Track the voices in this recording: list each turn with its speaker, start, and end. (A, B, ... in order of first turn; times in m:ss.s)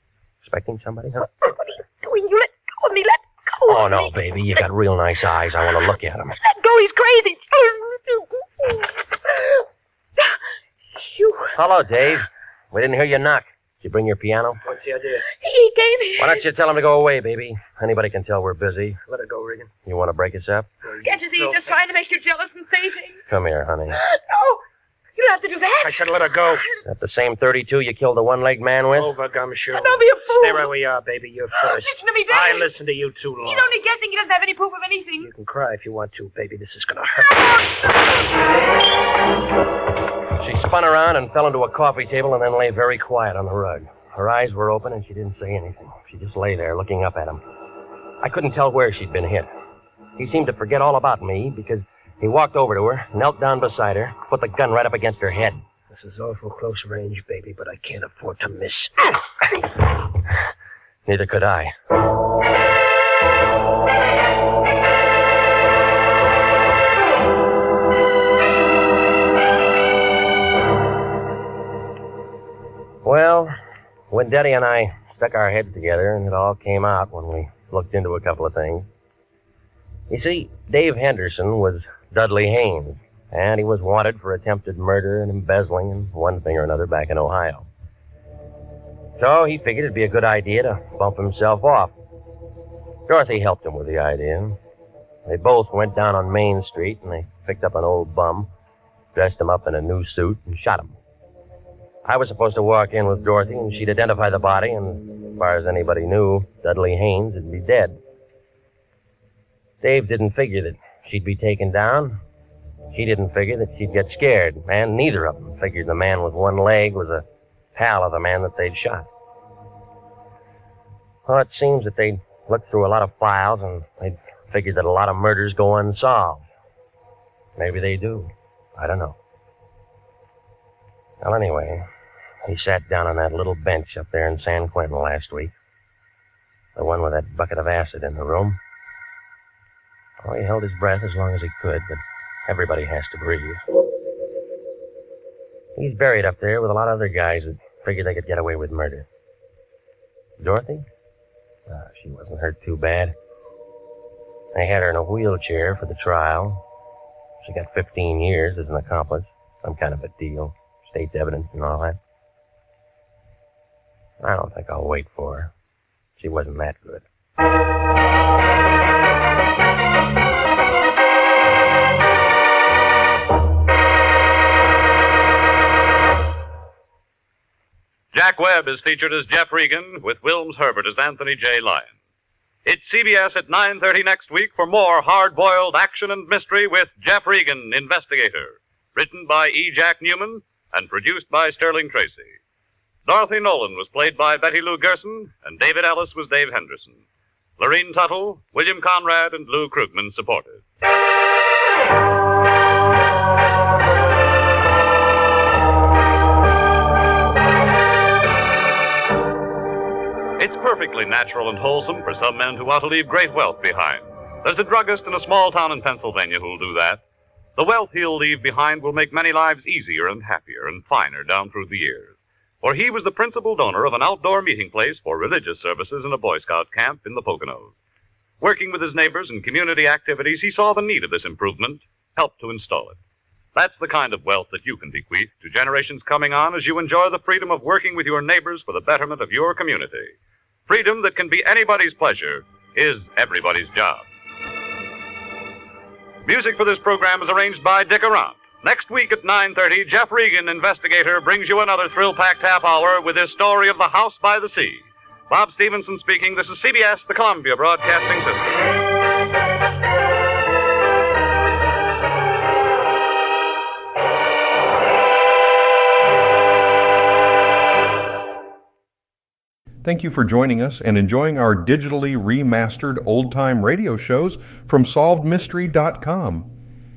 0:00.4-0:01.3 A
0:02.0-0:03.9 B
0:03.7-0:06.4 A
0:06.5-0:07.6 B
0:11.0-0:11.5 B
0:11.5-0:14.6 A
0:14.6-0:15.2 C
0:15.4-0:16.4 B
0:16.2-0:19.0 A
0:19.1-0:19.7 C
0:19.9-0:20.7 A
0:20.8-0:21.8 C
0:21.0-0:23.1 B
0:23.3-0:24.0 A
0:25.2-0:26.0 B
0:25.8-0:26.6 C
0:26.8-0:29.2 A
0:29.0-0:33.8 C
0:29.8-0:30.6 B
0:34.0-0:35.2 B
0:35.2-0:37.7 C
0:40.4-0:47.4 A
0:48.2-0:49.5 A
0:50.2-0:55.6 A
0:55.9-0:59.2 C
1:01.1-1:01.7 A
1:13.0-1:13.5 A
1:14.1-1:18.9 A
1:20.1-1:27.7 A
1:29.2-1:32.0 A
1:33.1-1:34.6 A
1:35.2-1:38.5 A
1:39.1-1:40.9 A
1:42.0-1:48.0 A
1:49.8-1:52.2 A
1:52.9-1:59.1 A
2:01.3-2:06.4 A
2:07.6-2:09.2 A
2:11.2-2:11.9 A
2:12.5-2:15.5 A
2:16.8-2:18.6 A
2:20.2-2:23.6 A
2:25.8-2:29.1 A
2:30.4-2:30.9 A
2:31.7-2:33.2 A
2:34.5-2:36.6 A
2:37.4-2:42.0 A
2:44.2-2:45.5 A
2:46.2-2:47.1 A
2:58.1-3:01.9 D
3:02.6-3:12.4 D
3:13.0-3:17.0 D
3:17.6-3:20.6 D
3:30.4-3:37.0 D
3:37.6-3:47.7 D
3:48.4-3:53.0 D
3:53.6-4:00.1 D
4:00.7-4:04.1 D
4:06.2-4:18.6 D
4:29.8-4:36.5 E